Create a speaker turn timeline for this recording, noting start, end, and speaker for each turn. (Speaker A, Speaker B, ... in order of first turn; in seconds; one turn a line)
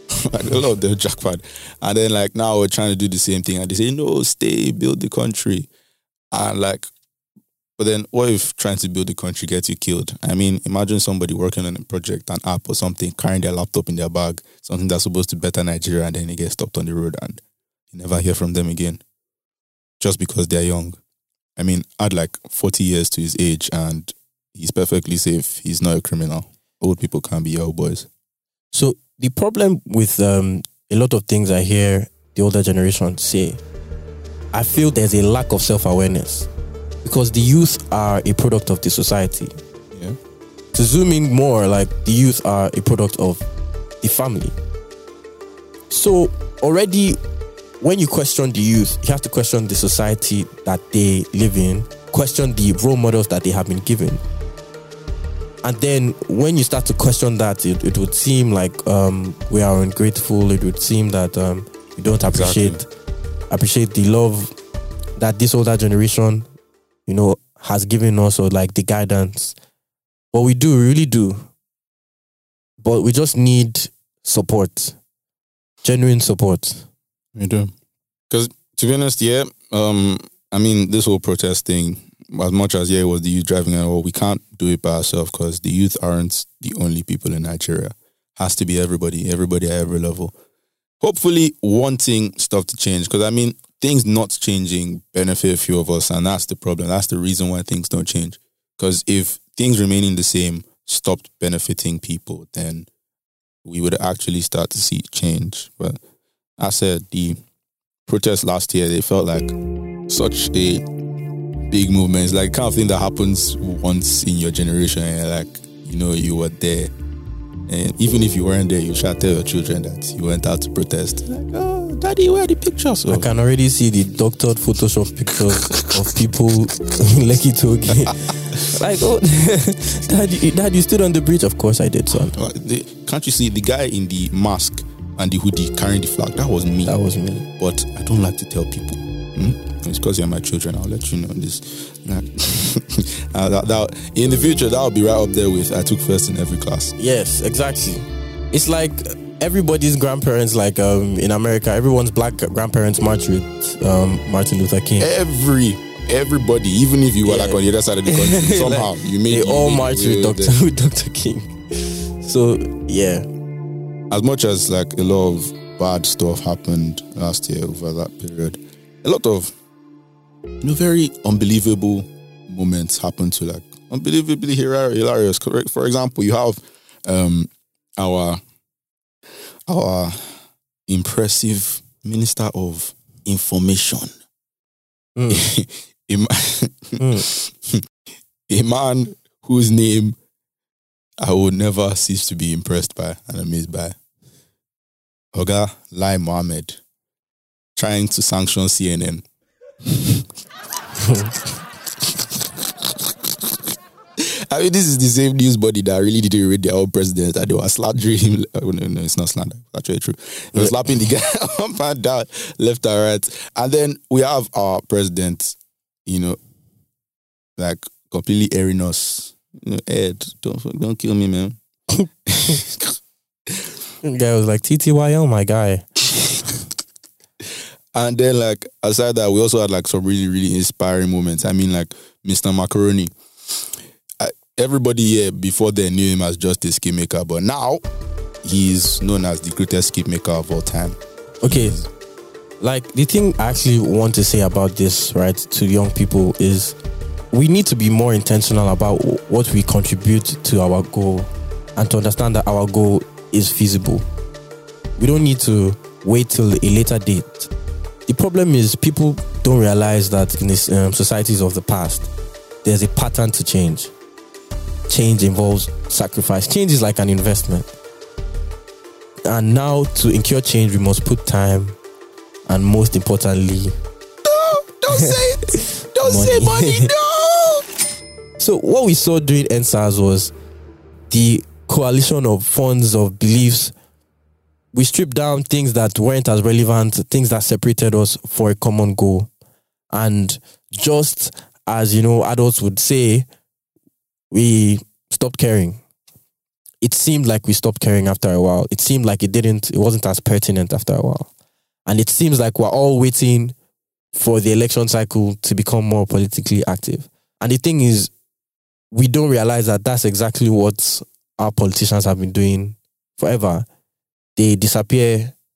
Speaker A: 0.2-5.7
Speaker A: 6.3-6.9
Speaker A: 7.8-19.0
Speaker A: 20.0-21.0
Speaker A: 21.6-28.1
Speaker B: 28.7-33.6
Speaker B: 34.5-36.5
Speaker B: 37.0-39.5
Speaker B: 40.7-43.5
Speaker B: 44.0-44.5
Speaker B: 45.9-47.2
Speaker B: 47.8-54.2
Speaker B: 55.6-62.9
Speaker A: 62.2-62.8
Speaker B: 63.5-64.5
Speaker B: 65.2-66.5
Speaker B: 67.0-69.5
Speaker B: 70.3-71.5
Speaker B: 72.8-75.0
Speaker B: 75.8-76.9
Speaker A: 77.4-77.7
Speaker A: 78.3-90.4
Speaker A: 91.0-102.9
Speaker A: 103.6-106.0
Speaker A: 106.6-107.4
Speaker A: 108.1-109.5
Speaker A: 110.1-110.8
Speaker A: 111.7-116.9
Speaker A: 117.7-123.3
Speaker B: 123.1-132.4
Speaker A: 132.1-136.9
Speaker B: 136.8-137.5
Speaker A: 137.6-146.9
Speaker B: 147.0-155.1
Speaker A: 155.0-160.6
Speaker B: 157.2-163.2
Speaker A: 164.1-169.5
Speaker A: 170.6-178.4
Speaker A: 179.7-184.1
Speaker B: 185.2-185.5
Speaker A: 185.3-187.8
Speaker B: 187.0-187.2
Speaker A: 188.5-190.2
Speaker A: 191.2-194.0
Speaker A: 195.3-196.8
Speaker A: 197.8-199.2
Speaker A: 199.8-200.2
Speaker B: 201.1-201.3
Speaker A: 204.2-216.4
Speaker B: 210.6-210.8
Speaker A: 217.6-221.6
Speaker A: 222.3-222.9
Speaker B: 224.0-225.9
Speaker A: 227.9-233.1
Speaker A: 234.2-237.8
Speaker A: 238.4-241.9
Speaker B: 241.4-241.8
Speaker B: 242.6-246.8
Speaker B: 247.3-254.1
Speaker B: 255.0-257.5
Speaker B: 258.1-262.1
Speaker B: 262.6-263.9
Speaker B: 264.9-267.7
Speaker B: 269.2-271.8
Speaker B: 272.5-273.7
Speaker A: 274.2-277.6
Speaker B: 274.9-276.9
Speaker B: 278.4-280.3
Speaker B: 281.1-283.7
Speaker B: 284.7-289.3
Speaker B: 289.9-293.2
Speaker B: 294.3-295.8
Speaker B: 296.8-301.3
Speaker B: 301.9-303.5
Speaker B: 304.1-308.1
Speaker B: 308.9-313.6
Speaker B: 314.4-315.4